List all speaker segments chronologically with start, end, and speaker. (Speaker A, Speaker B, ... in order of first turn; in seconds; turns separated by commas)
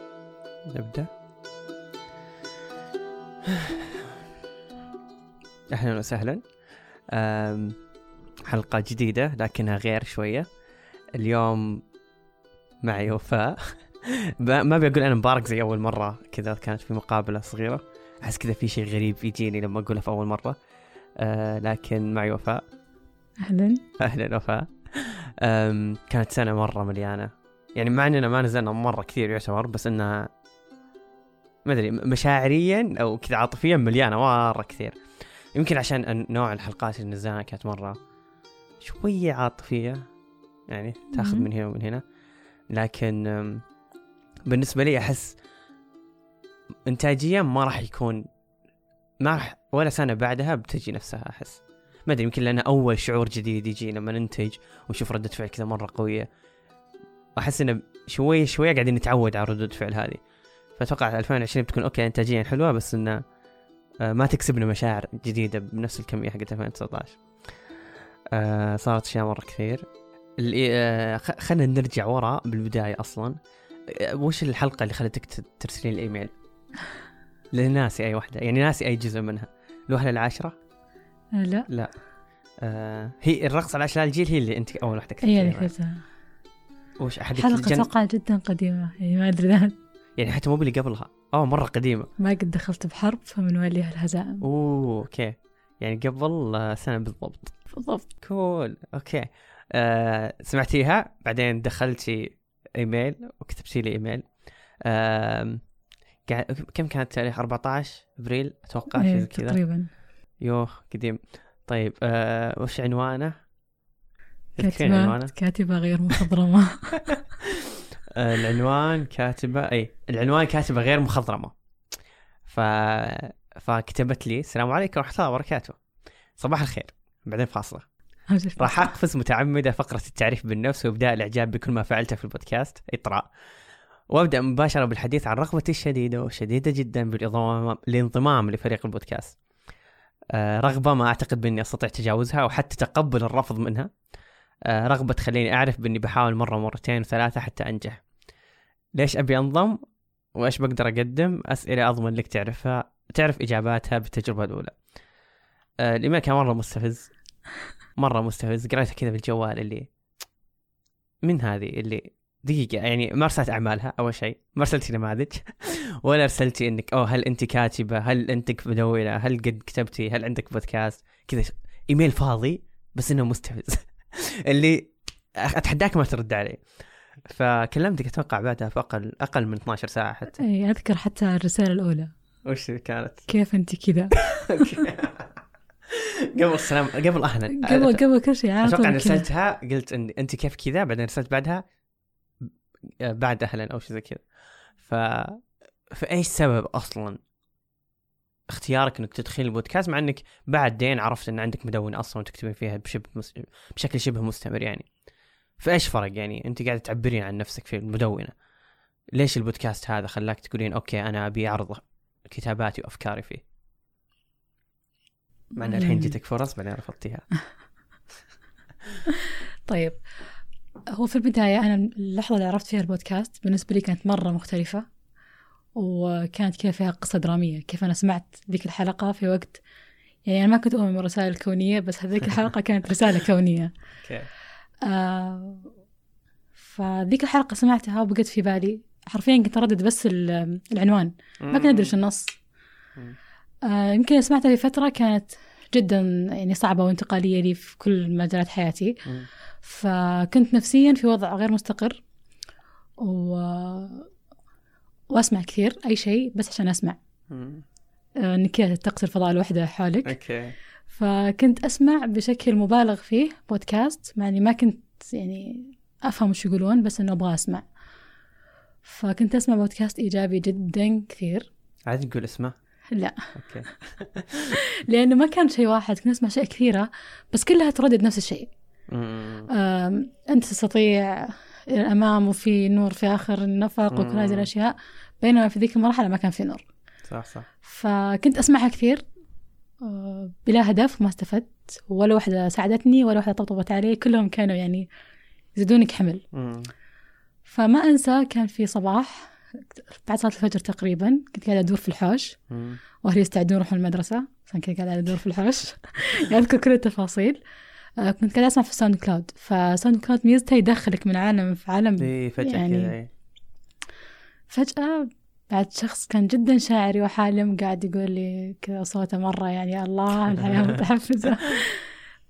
Speaker A: 0.7-1.1, Speaker A: 3.5-3.9, Speaker A: 5.7-6.4, Speaker A: 7.1-7.8, Speaker A: 8.4-10.5, Speaker A: 11.2-11.8, Speaker A: 12.8-20.6, Speaker A: 21.2-22.6, Speaker B: 23.4-23.8, Speaker A: 24.0-30.3, Speaker A: 31.6-35.0, Speaker A: 35.5-38.0, Speaker A: 38.8-40.1, Speaker A: 40.7-42.0, Speaker B: 41.1-41.5, Speaker A: 42.7-43.6, Speaker A: 44.5-45.4, Speaker A: 46.9-48.2, Speaker A: 49.2-56.3, Speaker A: 57.4-60.2, Speaker A: 60.8-63.2, Speaker A: 64.0-67.2, Speaker A: 68.3-69.8, Speaker A: 70.4-73.4, Speaker A: 73.9-76.3, Speaker A: 77.5-80.5, Speaker B: 81.3-81.7, Speaker A: 82.6-85.7, Speaker B: 85.2-86.0, Speaker A: 87.0-87.9, Speaker B: 87.4-89.7, Speaker A: 90.2-92.1, Speaker B: 92.2-94.4, Speaker A: 94.4-97.5, Speaker B: 97.7-98.0, Speaker A: 98.2-104.2, Speaker A: 104.8-105.6, Speaker A: 106.3-109.6, Speaker B: 109.0-109.9, Speaker A: 110.4-113.3, Speaker A: 114.5-115.3, Speaker B: 114.6-117.1, Speaker A: 118.1-121.5, Speaker A: 122.5-125.8, Speaker A: 126.4-127.8, Speaker B: 128.3-128.9, Speaker A: 128.6-133.2, Speaker A: 134.1-139.4, Speaker A: 140.3-143.9, Speaker A: 144.7-148.0, Speaker A: 148.9-149.8, Speaker A: 150.3-154.8, Speaker A: 155.8-157.1, Speaker A: 158.0-159.9, Speaker A: 161.2-176.6, Speaker A: 177.2-180.4, Speaker B: 180.4-182.1, Speaker A: 182.4-183.2, Speaker B: 183.3-184.7, Speaker A: 184.3-185.3, Speaker A: 185.9-188.0, Speaker B: 187.5-189.2, Speaker A: 188.6-191.6, Speaker A: 193.0-194.2, Speaker A: 194.8-197.2, Speaker A: 198.5-204.9, Speaker A: 205.6-208.3, Speaker A: 209.1-213.4, Speaker A: 215.6-217.2, Speaker B: 215.7-216.1, Speaker B: 219.1-220.0, Speaker B: 220.9-224.8, Speaker B: 225.8-229.6, Speaker B: 230.2-233.7, Speaker A: 234.0-234.3, Speaker B: 234.8-235.7, Speaker B: 236.6-242.3, Speaker A: 241.4-241.9, Speaker B: 243.6-248.9, Speaker B: 249.6-252.0, Speaker B: 253.0-254.1, Speaker B: 255.1-257.0, Speaker A: 257.3-257.6, Speaker B: 258.2-260.1, Speaker A: 260.0-260.5, Speaker B: 260.9-267.6, Speaker B: 268.8-271.5, Speaker A: 271.9-272.5, Speaker B: 272.9-273.2, Speaker A: 273.3-274.6, Speaker B: 274.4-278.5, Speaker A: 278.9-279.5, Speaker B: 279.5-286.6, Speaker A: 283.9-284.5, Speaker A: 287.1-287.5, Speaker B: 287.6-289.0, Speaker B: 289.8-294.9, Speaker B: 295.5-296.2, Speaker A: 296.3-296.7, Speaker B: 297.5-302.4, Speaker A: 302.5-302.8, Speaker B: 303.0-307.4, Speaker B: 308.0-312.9, Speaker A: 312.0-313.1, Speaker B: 314.5-321.9, Speaker A: 320.3-320.8